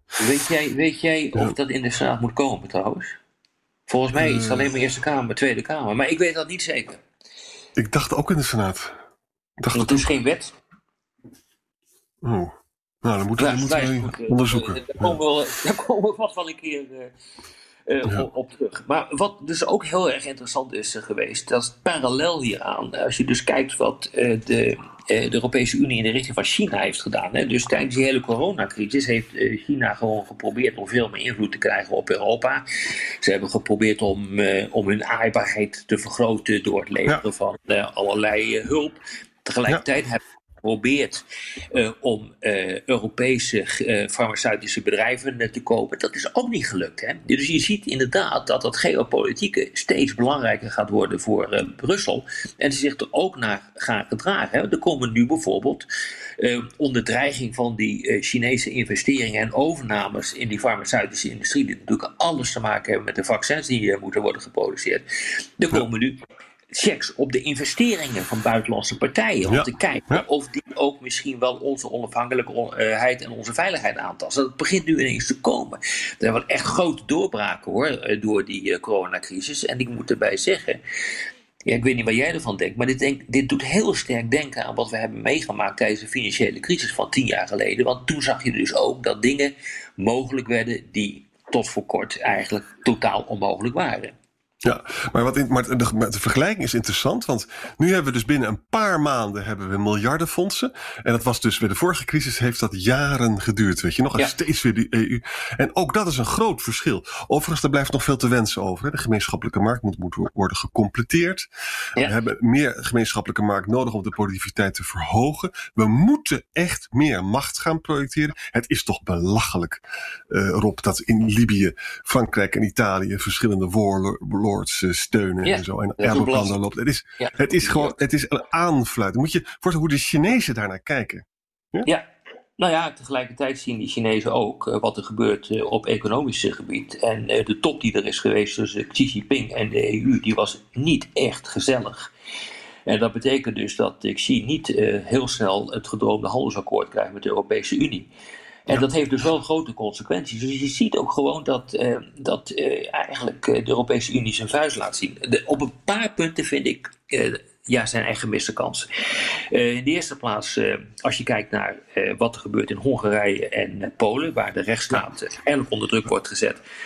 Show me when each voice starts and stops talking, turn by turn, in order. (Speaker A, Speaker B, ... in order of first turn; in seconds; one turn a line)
Speaker A: 0.2-3.2
Speaker A: 3.9-7.0
Speaker B: 4.2-4.7
Speaker B: 7.8-9.0
Speaker B: 9.6-10.1
Speaker A: 9.7-10.5
Speaker B: 12.2-15.2
Speaker A: 13.4-17.1
Speaker A: 17.9-32.6
Speaker A: 33.2-55.9
Speaker A: 56.4-65.0
Speaker A: 65.6-66.2
Speaker A: 66.7-80.8
Speaker B: 69.5-70.2
Speaker A: 81.7-94.1
Speaker B: 94.6-111.5
Speaker B: 112.0-131.9
Speaker A: 125.4-126.6
Speaker A: 127.2-128.0
Speaker A: 132.6-142.1
Speaker A: 142.9-148.1
Speaker A: 148.7-166.6